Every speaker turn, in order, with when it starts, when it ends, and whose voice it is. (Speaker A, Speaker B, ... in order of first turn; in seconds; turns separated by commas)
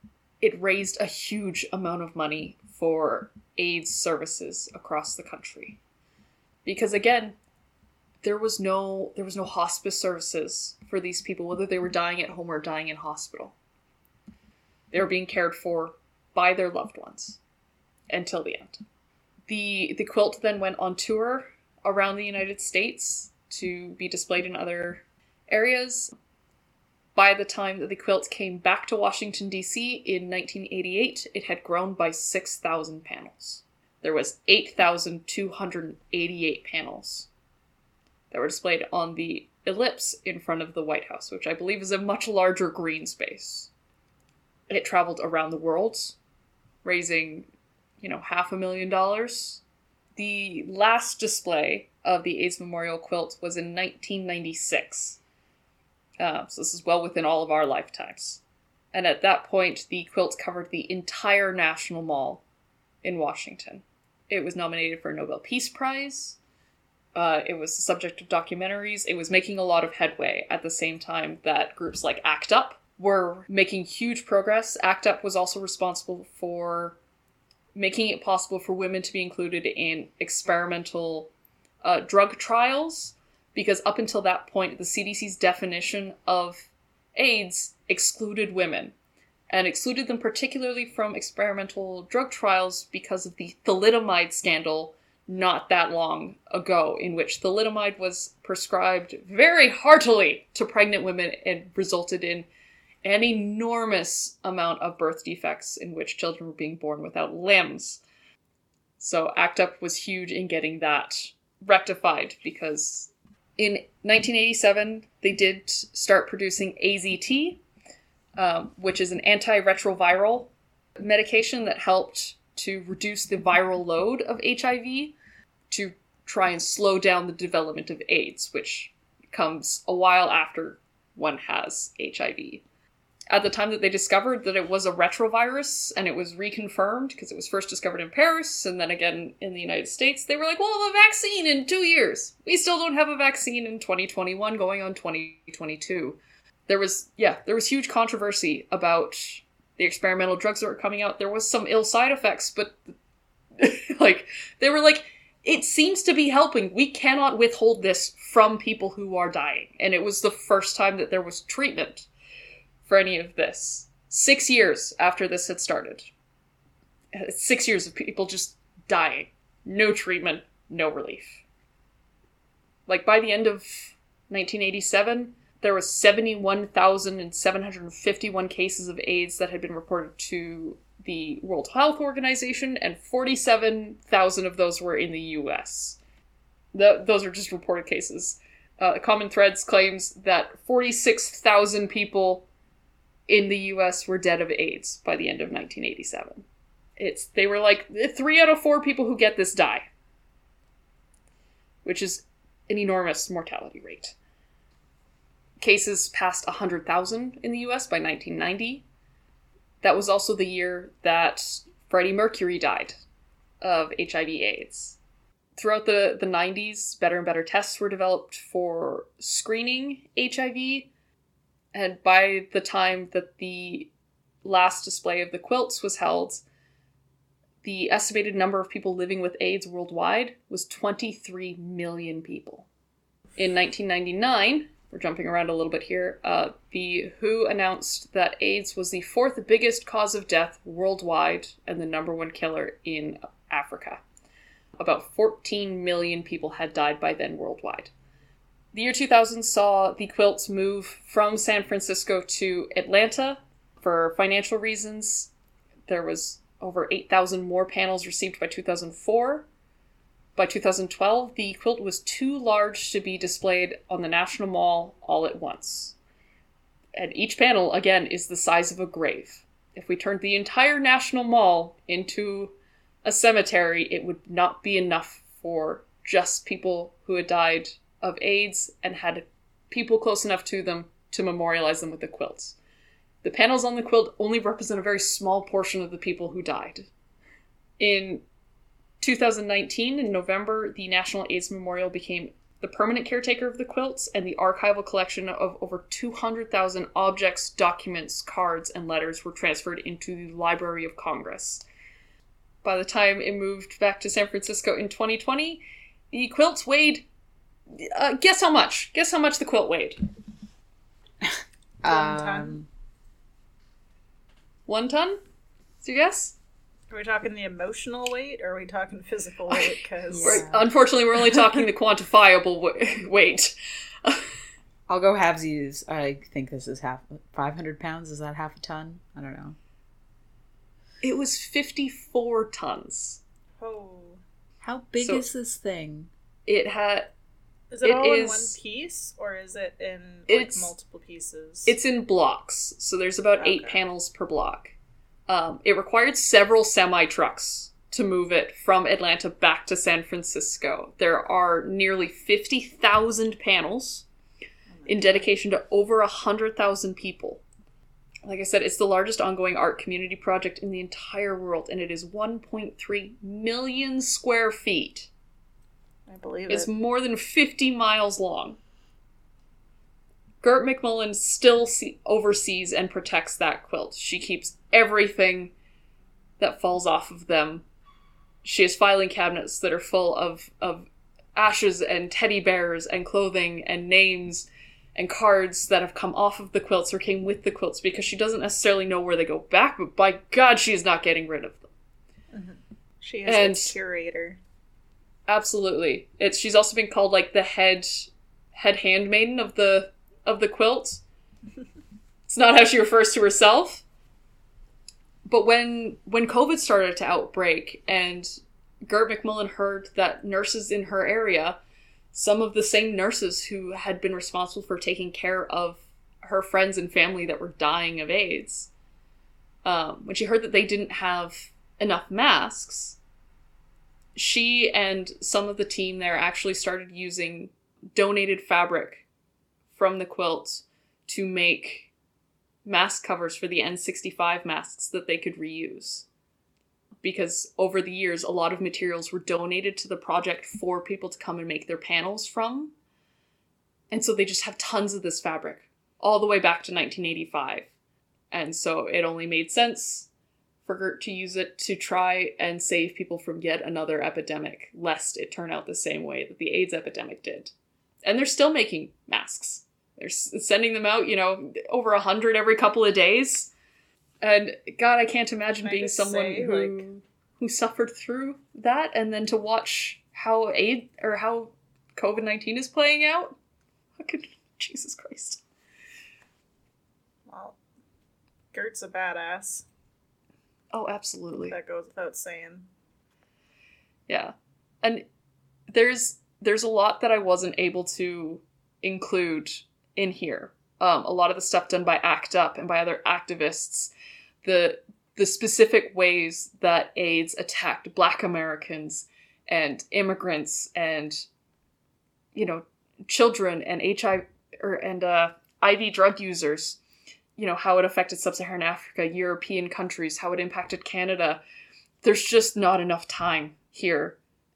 Speaker A: 0.4-5.8, Speaker A: 6.7-7.4, Speaker A: 8.2-13.6, Speaker A: 14.9-17.4, Speaker A: 18.1-18.8, Speaker A: 19.5-26.1, Speaker A: 27.1-37.3, Speaker A: 38.3-43.7, Speaker A: 44.7-46.2, Speaker A: 46.8-47.5, Speaker A: 48.0-49.6, Speaker A: 50.2-55.2, Speaker A: 56.2-58.4, Speaker A: 58.9-62.4, Speaker A: 63.0-66.4, Speaker A: 67.2-77.0, Speaker A: 77.8-81.3, Speaker A: 81.8-88.9, Speaker A: 89.5-102.5, Speaker A: 103.0-108.0, Speaker A: 109.0-117.6, Speaker A: 118.4-125.2, Speaker A: 125.7-132.6, Speaker A: 133.3-152.8, Speaker A: 153.6-162.1, Speaker A: 162.8-166.1, Speaker A: 167.1-171.4, Speaker A: 172.9-186.0, Speaker A: 186.7-192.5, Speaker A: 193.3-196.4, Speaker A: 197.0-199.9, Speaker A: 201.8-204.2, Speaker A: 205.6-208.8, Speaker A: 209.8-213.0, Speaker A: 213.6-215.0, Speaker A: 215.6-220.9, Speaker A: 221.7-223.9, Speaker A: 224.4-226.4, Speaker A: 227.6-232.7, Speaker A: 233.4-244.0, Speaker A: 244.8-247.9, Speaker A: 248.7-255.3, Speaker A: 255.9-259.5, Speaker A: 260.4-266.0, Speaker A: 267.0-282.6, Speaker A: 283.2-286.9, Speaker A: 287.8-288.2, Speaker A: 289.0-301.6, Speaker A: 302.6-307.1, Speaker A: 307.7-310.0, Speaker B: 311.2-312.7, Speaker C: 311.9-312.6, Speaker A: 314.7-315.2, Speaker A: 315.8-316.4, Speaker C: 316.9-320.5, Speaker A: 319.5-324.3, Speaker B: 320.1-320.7, Speaker B: 324.9-329.6, Speaker A: 331.0-333.2, Speaker C: 333.6-334.2, Speaker B: 334.6-336.1, Speaker A: 335.0-335.2, Speaker A: 336.5-337.1, Speaker C: 337.7-341.8, Speaker A: 337.8-338.6, Speaker A: 340.3-340.7, Speaker A: 341.7-344.7, Speaker C: 343.4-343.8, Speaker A: 345.3-354.1, Speaker C: 354.8-355.3, Speaker A: 354.9-357.4, Speaker A: 358.2-365.1, Speaker C: 366.1-366.7, Speaker A: 366.5-368.6, Speaker A: 370.4-375.5, Speaker A: 376.4-377.6, Speaker A: 378.4-391.7, Speaker C: 392.3-394.4, Speaker A: 393.3-393.7, Speaker A: 395.3-401.0, Speaker A: 402.3-403.8, Speaker A: 405.3-411.6, Speaker A: 412.1-418.7, Speaker A: 419.6-423.0, Speaker A: 424.1-429.1, Speaker A: 429.7-431.9, Speaker A: 432.6-436.1, Speaker A: 437.0-442.7, Speaker A: 443.9-447.7, Speaker A: 448.3-450.1, Speaker A: 450.6-457.5, Speaker A: 458.0-463.5, Speaker A: 464.2-473.3, Speaker C: 465.6-466.9, Speaker A: 474.0-475.4, Speaker C: 477.3-477.6, Speaker C: 478.5-479.7, Speaker A: 480.7-481.6, Speaker C: 481.4-482.7, Speaker A: 484.1-485.1, Speaker A: 485.7-493.9, Speaker A: 494.4-501.3, Speaker A: 502.4-506.8, Speaker A: 507.4-511.4, Speaker A: 512.0-514.2